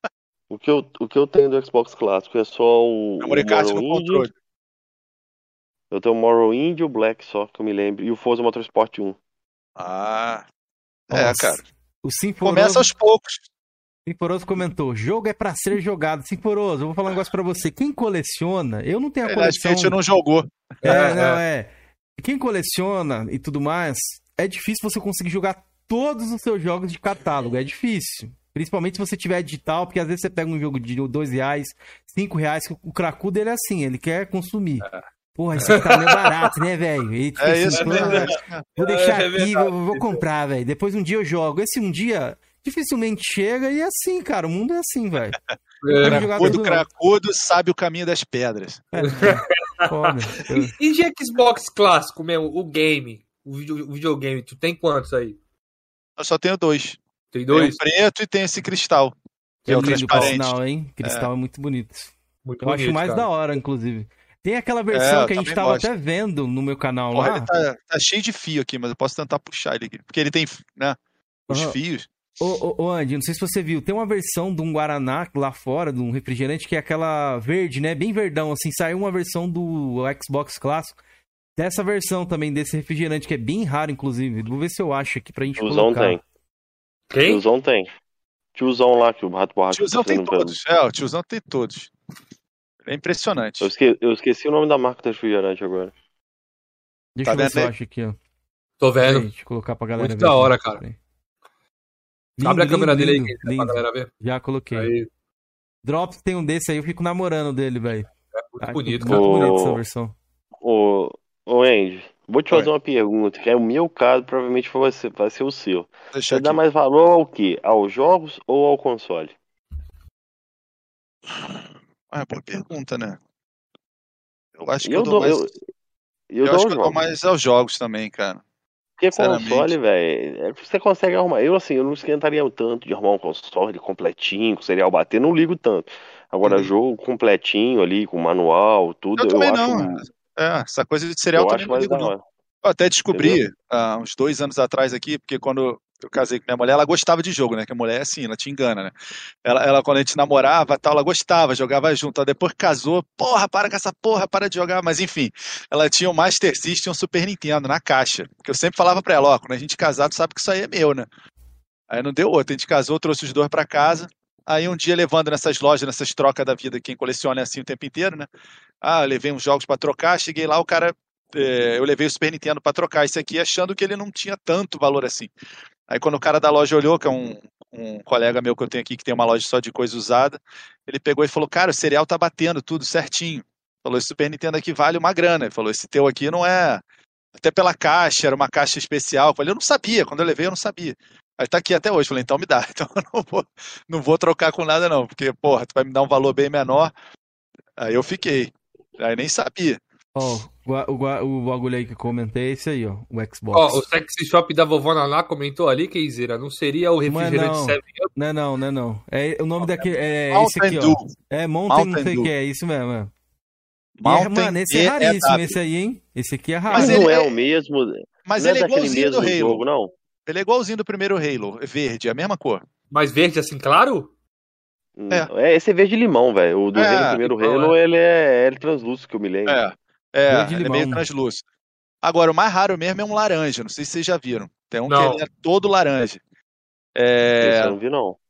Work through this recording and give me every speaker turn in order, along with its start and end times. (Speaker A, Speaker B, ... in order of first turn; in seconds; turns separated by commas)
Speaker A: 0.5-4.3, Speaker B: 3.2-4.3, Speaker A: 5.9-9.2, Speaker B: 9.8-10.4, Speaker B: 11.1-11.6, Speaker C: 11.1-12.9, Speaker B: 12.4-13.4, Speaker C: 14.1-19.9, Speaker B: 19.2-20.5, Speaker D: 20.8-21.4, Speaker C: 20.8-45.4, Speaker D: 35.6-36.5, Speaker B: 37.4-38.6, Speaker D: 37.7-40.2, Speaker D: 45.8-46.5, Speaker C: 45.9-46.8, Speaker B: 46.0-48.9, Speaker C: 48.9-50.7, Speaker D: 49.0-49.9, Speaker D: 50.6-55.4, Speaker B: 56.2-57.0, Speaker D: 57.3-57.8, Speaker B: 57.5-59.1, Speaker B: 59.6-61.3, Speaker C: 59.6-67.5, Speaker D: 59.9-60.3, Speaker D: 62.4-63.3, Speaker B: 64.9-65.9, Speaker B: 67.1-71.0, Speaker C: 71.5-71.8, Speaker B: 71.5-72.1, Speaker C: 72.4-81.0, Speaker C: 81.6-86.2, Speaker A: 85.6-86.2, Speaker D: 87.1-87.4, Speaker A: 87.2-87.9, Speaker A: 88.5-90.6, Speaker B: 89.7-91.9, Speaker B: 92.8-93.7, Speaker A: 93.6-95.9, Speaker C: 97.2-98.2, Speaker B: 97.2-97.7, Speaker D: 98.8-99.3, Speaker C: 99.0-101.0, Speaker D: 100.0-100.8, Speaker C: 102.4-104.9, Speaker D: 102.4-104.1, Speaker D: 104.7-105.1, Speaker C: 105.8-108.1, Speaker D: 108.4-109.5, Speaker C: 108.6-110.1, Speaker A: 109.1-109.8, Speaker A: 110.6-119.3, Speaker B: 116.1-116.6, Speaker B: 121.3-123.2, Speaker B: 124.6-125.5, Speaker A: 124.8-125.5, Speaker A: 126.3-127.0, Speaker B: 126.4-128.4, Speaker A: 129.0-140.1, Speaker B: 129.1-129.7, Speaker B: 136.4-136.7, Speaker B: 139.2-142.1, Speaker A: 141.3-142.2, Speaker B: 142.6-148.9, Speaker A: 143.1-143.4, Speaker B: 149.4-161.1, Speaker B: 161.9-168.3, Speaker B: 168.8-175.3, Speaker B: 175.9-186.8, Speaker B: 187.3-196.9, Speaker B: 197.8-199.8, Speaker C: 200.1-203.9, Speaker D: 203.5-208.1, Speaker C: 207.1-213.1, Speaker B: 209.6-211.1, Speaker B: 211.7-212.3, Speaker B: 214.0-215.6, Speaker C: 214.0-217.1, Speaker B: 216.7-217.3, Speaker A: 216.7-219.9, Speaker B: 218.3-219.6, Speaker B: 220.2-222.6, Speaker D: 222.9-224.1, Speaker A: 225.0-229.6, Speaker B: 226.7-227.2, Speaker D: 227.2-227.8, Speaker B: 229.4-231.4, Speaker C: 230.3-231.0, Speaker B: 232.0-236.2, Speaker D: 234.9-235.2, Speaker B: 236.9-237.7, Speaker A: 237.4-238.2